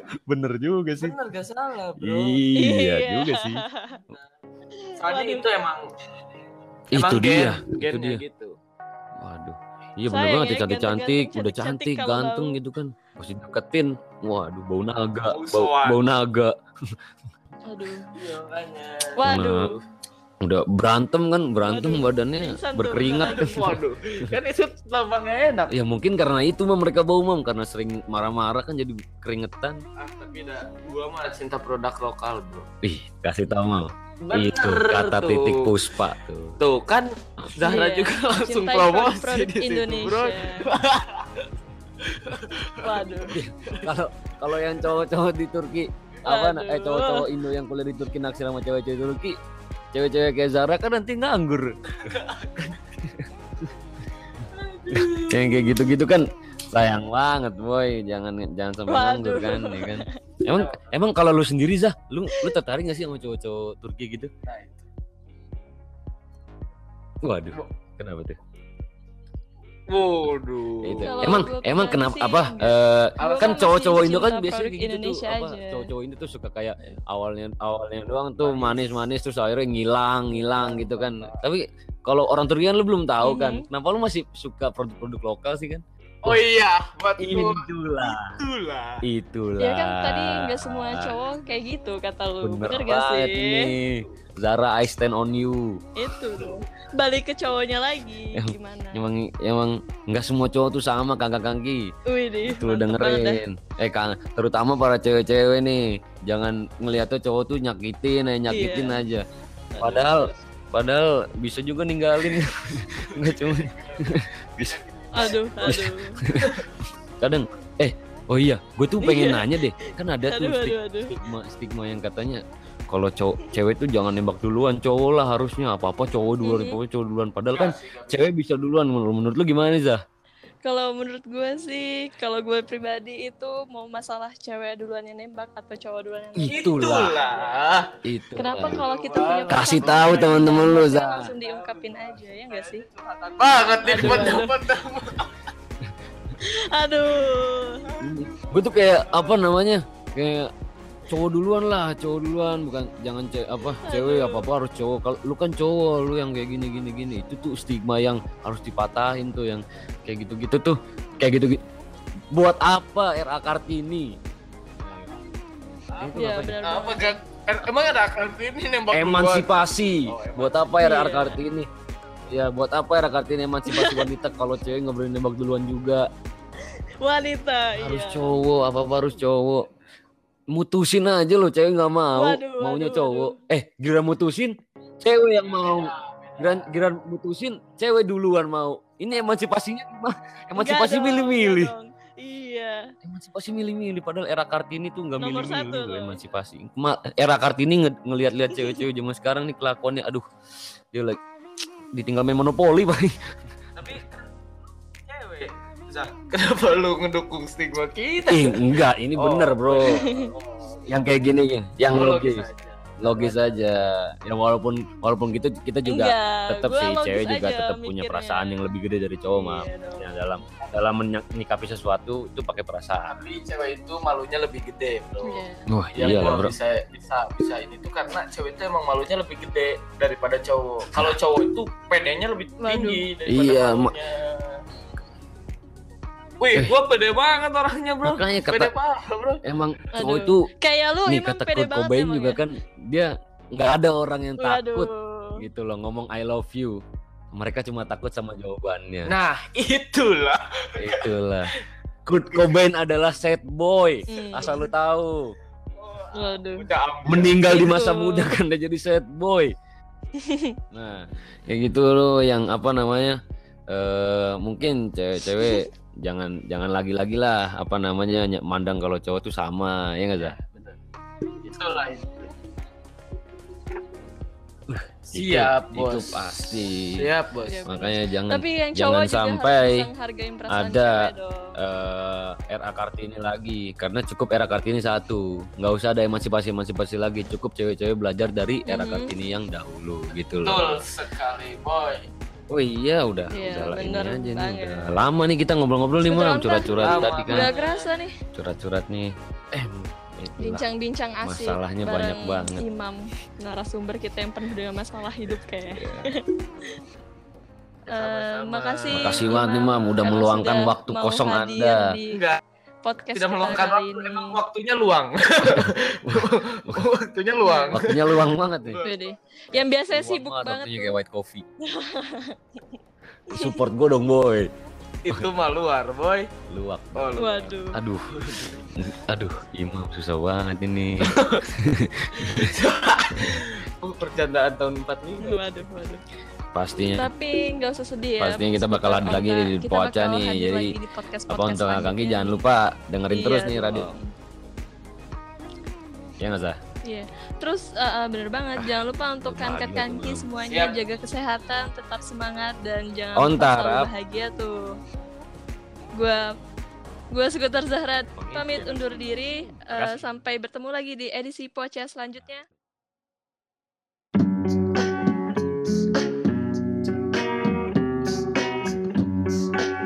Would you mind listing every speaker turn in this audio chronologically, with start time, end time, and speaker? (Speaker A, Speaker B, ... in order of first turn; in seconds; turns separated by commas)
Speaker A: 0.1-1.2, Speaker B: 1.0-2.4, Speaker A: 2.0-3.6, Speaker C: 2.6-4.0, Speaker C: 4.8-5.5, Speaker B: 5.0-5.8, Speaker A: 6.9-8.2, Speaker B: 6.9-8.5, Speaker A: 9.2-17.0, Speaker C: 10.1-12.5, Speaker B: 15.3-16.0, Speaker C: 17.6-18.1, Speaker B: 18.1-19.8, Speaker C: 19.2-19.8, Speaker A: 19.2-19.7, Speaker A: 20.4-24.3, Speaker C: 21.6-23.7, Speaker B: 23.2-25.7, Speaker A: 25.7-29.8, Speaker B: 30.0-32.7, Speaker A: 32.8-36.6, Speaker B: 34.2-35.8, Speaker B: 36.6-41.5, Speaker C: 37.6-40.7, Speaker B: 42.0-42.9, Speaker C: 42.8-43.3, Speaker A: 43.3-49.4, Speaker C: 46.2-47.3, Speaker A: 49.9-52.1, Speaker B: 52.0-52.8, Speaker A: 53.0-53.7, Speaker B: 54.5-55.5, Speaker A: 54.9-64.3, Speaker C: 58.9-60.1, Speaker B: 60.5-60.9, Speaker B: 64.5-64.9, Speaker A: 67.2-68.4, Speaker B: 69.9-71.5, Speaker A: 70.8-86.4, Speaker C: 71.0-75.9, Speaker B: 73.2-73.6, Speaker B: 78.4-79.0, Speaker B: 80.3-81.4, Speaker C: 83.2-83.6, Speaker B: 86.2-89.0, Speaker A: 87.2-88.3, Speaker A: 89.0-91.1, Speaker C: 89.6-93.7, Speaker A: 92.4-95.8, Speaker C: 96.0-99.0, Speaker A: 98.3-101.9, Speaker C: 102.1-103.4, Speaker A: 102.4-109.2, Speaker C: 108.5-109.0, Speaker C: 109.7-110.4, Speaker A: 109.8-114.8, Speaker B: 113.1-115.7, Speaker C: 115.1-116.2, Speaker A: 115.6-116.6, Speaker B: 116.4-116.7, Speaker A: 117.2-130.0, Speaker C: 119.0-121.2, Speaker C: 126.4-126.8, Speaker B: 127.5-128.2, Speaker C: 130.6-137.5, Speaker A: 136.3-137.2, Speaker B: 136.5-137.9, Speaker A: 138.0-138.8, Speaker C: 138.3-142.8, Speaker B: 138.6-145.4, Speaker A: 139.5-141.3, Speaker C: 143.8-144.6, Speaker A: 143.9-144.4, Speaker C: 146.4-147.9, Speaker B: 147.8-149.4, Speaker A: 148.0-150.5, Speaker A: 151.1-161.6, Speaker C: 153.8-154.4, Speaker A: 162.3-164.2, Speaker A: 166.0-166.6, Speaker C: 166.1-167.2, Speaker B: 166.6-169.5, Speaker A: 168.9-171.7, Speaker B: 170.0-170.9, Speaker C: 170.8-171.4, Speaker A: 172.3-176.1, Speaker C: 173.7-174.1, Speaker C: 177.0-178.3, Speaker A: 177.7-179.7, Speaker A: 180.5-191.7, Speaker C: 182.1-183.4, Speaker B: 185.3-186.8, Speaker C: 190.6-192.8, Speaker A: 193.0-200.3, Speaker C: 195.2-196.3, Speaker C: 198.5-198.8, Speaker A: 200.9-201.2, Speaker A: 201.9-203.2, Speaker B: 203.8-204.3, Speaker B: 205.0-210.8, Speaker A: 208.3-210.0, Speaker C: 209.9-210.3, Speaker A: 210.9-212.4, Speaker B: 211.9-213.6, Speaker A: 213.0-223.2, Speaker C: 215.8-218.7, Speaker C: 219.3-220.0, Speaker B: 223.1-225.4, Speaker C: 225.2-225.7, Speaker A: 225.7-226.5, Speaker B: 225.9-234.6, Speaker C: 232.6-233.0, Speaker A: 233.2-233.9, Speaker B: 236.4-239.4, Speaker A: 238.0-238.7, Speaker A: 239.4-240.5, Speaker C: 239.9-242.4, Speaker A: 241.1-246.8, Speaker C: 244.4-245.4, Speaker A: 247.3-249.1, Speaker B: 249.1-251.6, Speaker A: 250.8-251.5, Speaker A: 252.1-255.3, Speaker C: 254.1-254.7, Speaker B: 255.8-257.7, Speaker C: 256.1-256.7, Speaker A: 257.1-259.5, Speaker C: 257.5-258.3, Speaker C: 260.2-260.5, Speaker A: 260.7-263.2, Speaker A: 263.7-270.4, Speaker C: 265.3-265.7, Speaker B: 270.2-270.8, Speaker B: 271.4-272.3, Speaker A: 274.7-277.1, Speaker B: 275.1-277.8, Speaker C: 277.5-281.6, Speaker A: 277.7-279.9, Speaker A: 280.5-290.8, Speaker C: 288.6-289.1, Speaker B: 290.1-292.1, Speaker A: 292.5-297.5, Speaker C: 293.3-294.9, Speaker C: 296.1-298.2, Speaker B: 296.7-297.9, Speaker A: 298.3-300.6, Speaker C: 300.4-306.8, Speaker A: 301.2-302.6, Speaker A: 305.7-306.1, Speaker B: 307.9-309.3, Speaker C: 307.9-312.2, Speaker A: 308.9-311.9, Speaker B: 312.1-312.4, Speaker C: 312.8-314.4, Speaker B: 313.1-319.1, Speaker A: 315.5-316.9, Speaker C: 317.4-317.8, Speaker A: 317.7-318.8, Speaker C: 318.8-320.9, Speaker A: 319.9-321.4, Speaker C: 321.6-322.6, Speaker A: 323.3-324.5, Speaker C: 323.3-323.6, Speaker B: 325.0-326.3, Speaker A: 326.5-327.2, Speaker B: 326.9-327.5, Speaker C: 327.2-327.8, Speaker A: 327.7-332.6, Speaker B: 328.1-328.7, Speaker B: 331.0-331.5, Speaker B: 332.1-335.5, Speaker A: 333.1-333.4, Speaker C: 335.2-336.0, Speaker A: 336.5-337.1, Speaker C: 336.8-342.4, Speaker A: 338.2-340.7, Speaker A: 341.3-343.9, Speaker C: 343.1-344.1, Speaker A: 346.2-346.6, Speaker C: 346.9-354.6, Speaker A: 349.2-350.3, Speaker B: 350.4-350.8, Speaker A: 353.1-353.9, Speaker C: 355.9-356.2, Speaker C: 357.1-362.5, Speaker A: 358.0-360.0